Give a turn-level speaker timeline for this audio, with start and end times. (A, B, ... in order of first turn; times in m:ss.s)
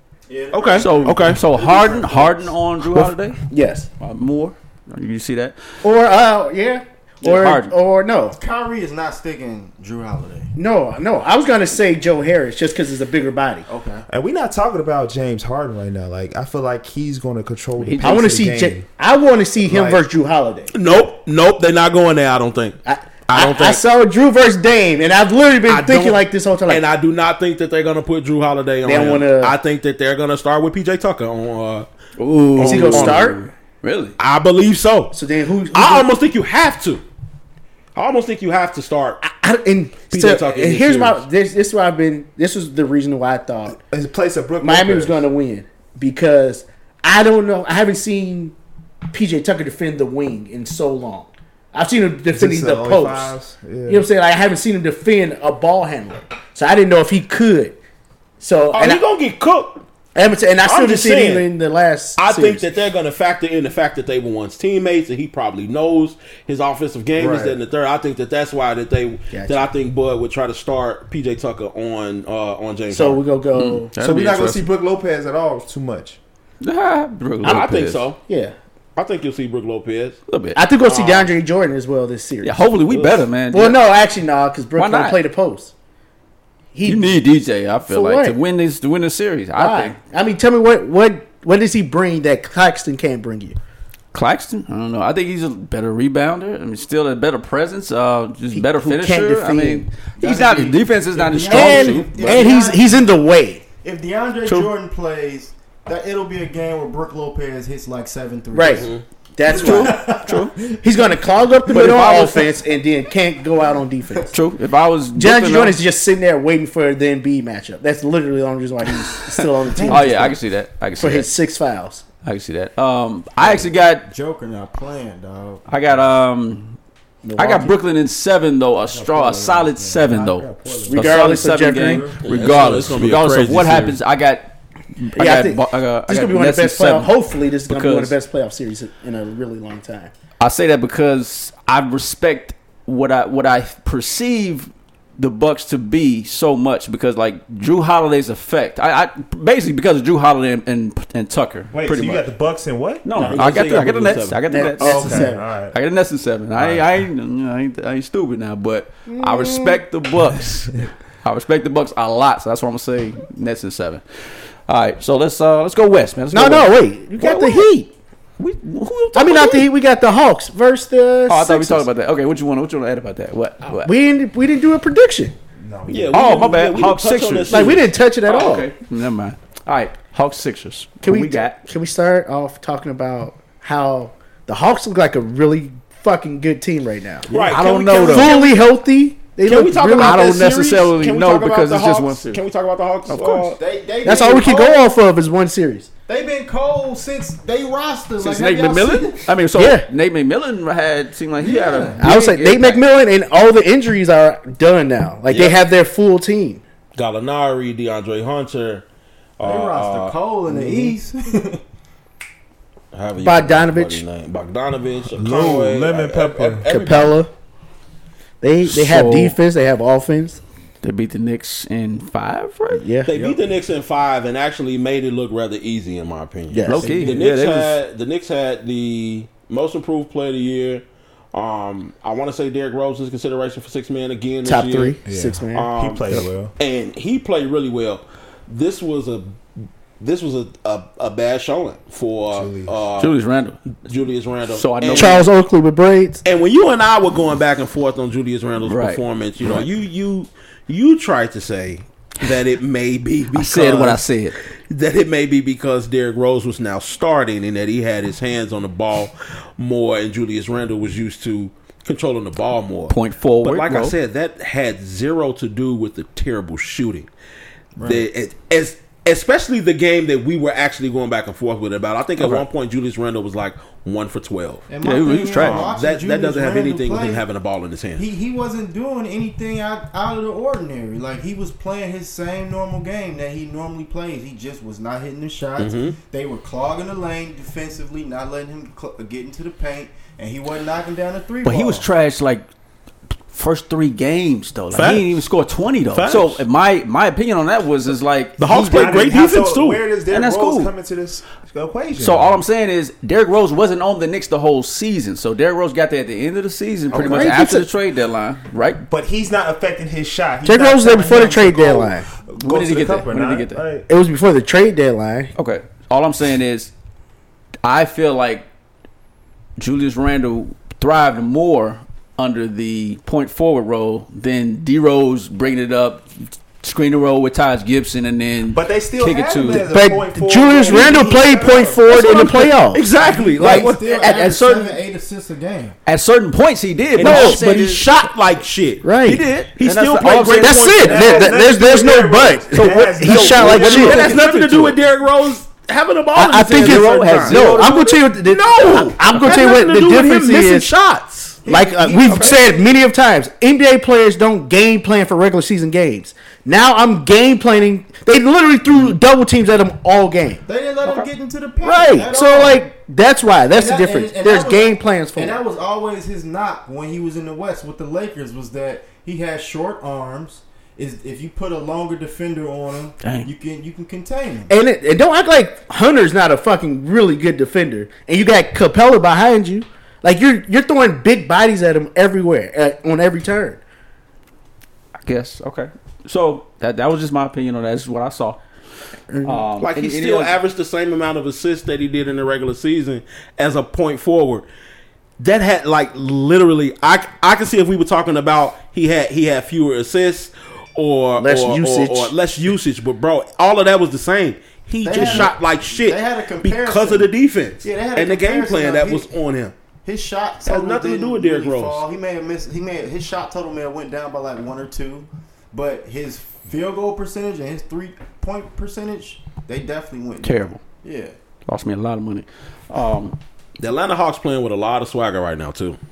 0:00.3-0:02.5 A
0:00.5-0:01.4 B
0:00.7-0:03.4 C
0:03.5-0:03.9 D
0:04.0-0:05.6 C
0:05.8-0:08.4 D
0:07.2-0:07.7 C
0:08.4-0:10.5 A
0:10.6-0:13.7 D
0:13.7-0:14.1 A
0:14.1-0:18.9 E
0:17.8-0:18.3 C
0:18.0-0:21.0 D
0:20.7-0:23.8 B
0:22.9-0:26.8 D
0:25.7-0:31.9 B
0:28.8-0:29.6 D
0:32.2-0:34.2 C
0:32.6-0:33.3 B
0:32.6-0:33.4 D
0:34.2-0:35.2 B
0:35.1-0:36.1 D
0:35.7-0:37.0 B
0:38.0-0:39.2 B
0:39.2-0:43.8 D
0:40.1-0:41.2 B
0:43.7-0:45.2 E
0:44.6-0:48.6 D
0:49.1-0:53.3 D
0:52.3-0:54.1 E
0:53.9-0:57.8 D
0:58.4-0:59.0 D
0:58.7-0:59.8 B
1:00.2-1:02.6 D
1:00.6-1:01.5 B
1:02.2-1:13.2 B
1:07.2-1:07.6 E
1:09.3-1:09.7 D
1:12.9-1:13.9 D
1:13.5-1:14.7 C
1:14.0-1:16.2 E
1:16.6-1:18.1 C
1:17.4-1:17.7 D
1:17.4-1:18.2 B
1:18.2-1:18.6 D
1:19.0-1:20.2 B
1:20.3-1:20.6 C
1:20.6-1:22.7 D
1:20.8-1:21.3 B
1:22.4-1:23.8 C
1:22.9-1:23.2 B
1:23.5-1:25.7 D
1:24.8-1:25.2 C
1:26.7-1:27.3 D
1:26.8-1:30.0 C
1:27.9-1:28.4 D
1:29.6-1:33.6 D
1:34.1-1:42.5 C
1:38.5-1:40.6 D
1:40.2-1:43.0 A
1:41.5-1:43.6 D
1:41.6-1:42.2 B
1:43.8-1:48.9 A
1:44.4-1:44.7 C
1:48.5-1:50.2 D
1:48.7-1:49.0 B
1:49.5-1:50.6 C
1:49.5-1:50.7 A
1:50.8-1:54.4 D
1:51.7-1:52.6 C
1:54.3-1:55.8 C
1:55.2-2:00.4 D
1:59.2-2:01.3 C
1:59.8-2:00.1 E
2:01.0-2:02.0 D
2:02.2-2:04.1 C
2:03.4-2:05.7 A
2:05.7-2:06.8 C
2:07.2-2:07.8 D
2:07.4-2:17.1 C
2:08.9-2:11.2 E
2:09.3-2:10.3 A
2:10.9-2:12.2 D
2:11.8-2:12.6 A
2:12.2-2:14.0 B
2:15.2-2:20.1 D
2:17.7-2:18.2 C
2:20.4-2:32.2 C
2:31.7-2:33.0 E
2:33.0-2:44.0 C
2:33.2-2:34.5 B
2:33.2-2:35.5 D
2:34.8-2:35.8 E
2:36.6-2:37.0 E
2:39.1-2:39.8 D
2:44.7-2:47.7 C
2:46.3-2:47.9 D
2:48.4-2:49.7 C
2:49.2-2:51.9 D
2:51.3-2:53.9 C
2:53.8-2:55.4 D
2:55.6-2:56.6 E
2:55.9-2:57.9 B
2:56.1-2:57.7 C
2:57.5-2:58.7 D
2:58.2-3:01.6 C
3:01.0-3:07.3 D
3:07.3-3:08.6 B
3:07.3-3:08.4 C
3:08.1-3:10.4 D
3:09.5-3:13.6 B
3:10.0-3:12.4 C
3:13.1-3:13.6 C
3:13.6-3:14.9 A
3:14.0-3:15.9 D
3:16.1-3:19.3 A
3:18.2-3:22.8 C
3:19.6-3:19.9 D
3:21.4-3:22.0 A
3:22.0-3:26.6 D
3:25.3-3:25.6 B
3:27.0-3:28.8 B
3:29.4-3:30.2 B
3:29.4-3:31.6 A
3:30.5-3:30.9 D
3:32.9-3:37.2 B
3:33.2-3:34.0 D
3:35.2-3:36.7 E
3:36.7-3:37.3 D
3:38.4-3:40.4 D
3:38.7-3:39.4 C
3:40.8-3:42.8 C
3:42.7-3:43.1 D
3:43.1-3:55.0 B
3:46.5-3:47.0 D
3:46.7-3:47.8 C
3:54.4-3:56.2 D
3:55.1-3:56.5 E
3:55.5-3:59.4 B
4:00.0-4:03.2 B
4:02.3-4:02.7 E
4:03.0-4:03.6 C
4:03.8-4:05.3 B
4:04.5-4:05.3 C
4:04.9-4:06.2 D
4:06.2-4:14.0 B
4:08.6-4:09.6 C
4:13.3-4:14.4 C
4:14.7-4:27.1 B
4:22.9-4:24.0 C
4:27.8-4:28.1 A
4:27.8-4:34.7 B
4:32.2-4:32.4 C
4:34.7-4:37.2 A
4:34.8-4:35.7 C
4:35.4-4:38.1 B
4:38.0-4:51.9 A
4:45.6-4:46.0 B
4:51.4-4:52.5 C
4:53.3-4:59.0 C
4:54.7-4:55.3 B
4:55.9-4:56.4 B
4:58.4-4:59.8 B
4:58.5-5:02.4 E
5:00.1-5:00.7 C
5:02.0-5:08.8 C
5:06.9-5:07.7 D
5:08.9-5:13.9 E
5:10.4-5:12.1 D
5:12.4-5:13.6 C
5:13.9-5:15.3 D
5:15.4-5:16.7 C
5:17.6-5:18.5 C
5:19.6-5:29.7 C
5:28.5-5:32.3 E
5:29.6-5:32.9 D
5:32.2-5:34.0 B
5:32.9-5:35.8 A
5:33.4-5:34.8 C
5:35.9-5:37.9 C
5:37.0-5:38.9 B
5:37.0-5:37.4 D
5:38.8-5:39.2 D
5:39.0-5:40.9 C
5:39.5-5:41.2 B
5:40.4-5:44.1 D
5:40.8-5:44.8 E
5:43.0-5:51.4 B
5:46.2-5:50.7 D
5:46.6-5:47.7 C
5:51.4-5:52.7 A
5:51.5-6:00.4 D
5:52.0-5:52.4 C
6:00.5-6:02.7 A
6:01.6-6:05.4 D
6:03.5-6:14.5 A
6:13.0-6:13.3 C
6:14.5-6:23.6 D
6:25.0-6:28.4 C
6:29.1-6:29.4 D
6:29.2-6:30.4 C
6:29.6-6:34.5 B
6:35.2-6:49.5 B
6:41.2-6:42.1 D
6:44.8-6:47.1 A
6:47.6-6:49.1 A
6:49.8-7:01.2 A
6:50.5-6:51.8 B
7:00.2-7:00.6 C
7:01.5-7:03.2 C
7:03.6-7:05.8 B